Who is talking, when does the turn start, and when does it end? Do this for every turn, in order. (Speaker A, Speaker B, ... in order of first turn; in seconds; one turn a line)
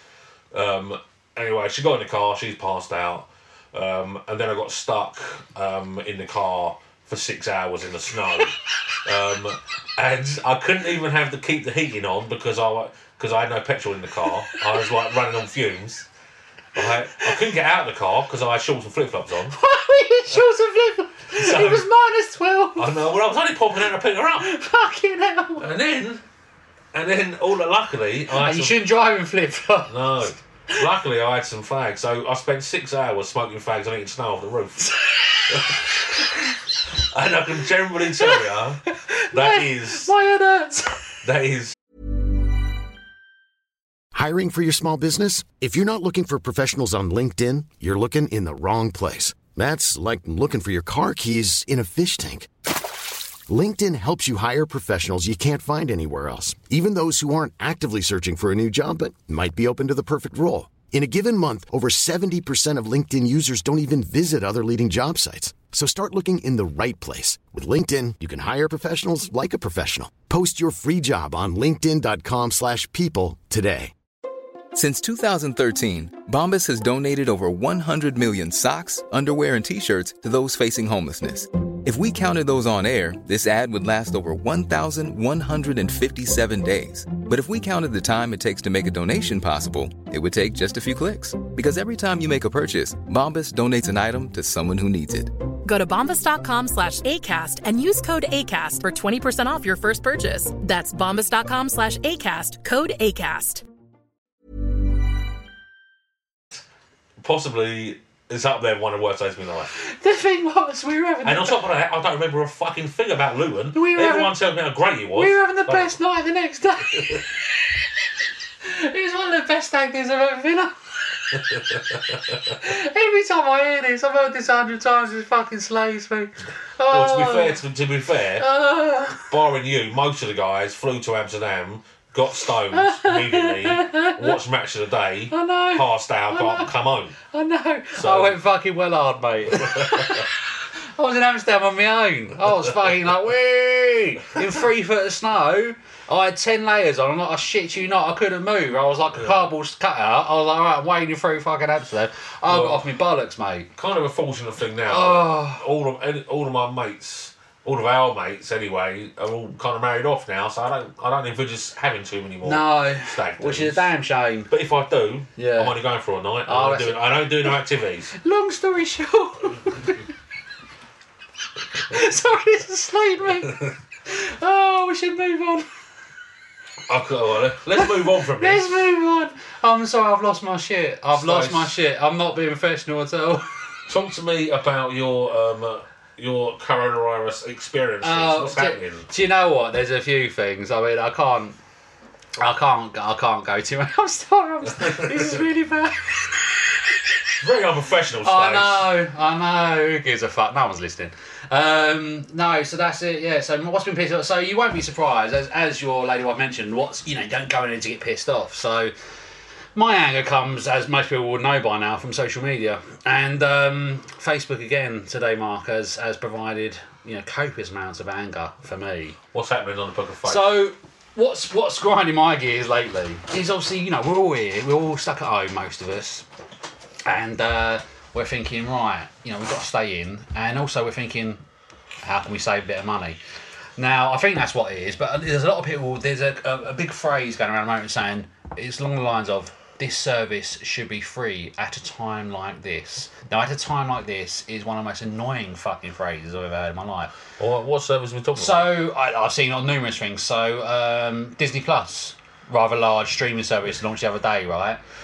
Speaker A: 0.5-16.1
Speaker A: 16.8-19.5
Speaker B: 19.5-22.9
Speaker A: 21.3-21.9
Speaker A: 22.8-24.5
Speaker B: 24.4-25.7
Speaker A: 25.6-26.2
Speaker A: 26.9-28.8
Speaker B: 28.4-30.8
Speaker A: 29.9-34.9
Speaker A: 35.5-36.4
Speaker A: 37.0-40.1
Speaker B: 38.2-41.0
Speaker A: 41.2-41.8
Speaker C: 44.1-52.5
Speaker C: 53.5-73.9
Speaker D: 74.7-95.3
Speaker E: 95.6-103.6
Speaker A: 107.2-109.7
Speaker B: 109.7-111.6
Speaker A: 111.2-115.9
Speaker B: 113.7-114.3
Speaker B: 115.2-117.5
Speaker B: 118.6-121.4
Speaker B: 122.5-127.6
Speaker A: 126.9-128.5
Speaker B: 128.4-129.3
Speaker A: 129.3-137.2
Speaker B: 132.7-134.4
Speaker B: 135.3-136.7
Speaker B: 137.3-140.4
Speaker A: 138.0-138.4
Speaker A: 139.5-140.2
Speaker B: 140.9-153.7
Speaker A: 152.5-152.8
Speaker A: 153.8-163.9
Speaker B: 154.9-155.6
Speaker B: 162.4-164.5
Speaker A: 164.5-168.1
Speaker B: 165.4-165.8
Speaker B: 166.5-167.6
Speaker B: 168.2-170.1
Speaker B: 171.8-175.7
Speaker A: 176.9-178.7
Speaker B: 177.8-183.6
Speaker A: 181.1-181.8
Speaker A: 183.9-189.1
Speaker B: 188.0-191.6
Speaker B: 192.4-196.6
Speaker A: 194.8-195.4
Speaker A: 197.4-198.9
Speaker B: 198.2-208.9
Speaker B: 209.8-219.2
Speaker A: 219.3-220.6
Speaker B: 220.2-226.3
Speaker B: 227.1-231.4
Speaker B: 232.0-233.2
Speaker B: 233.8-247.1
Speaker A: 247.4-248.8
Speaker B: 248.4-254.8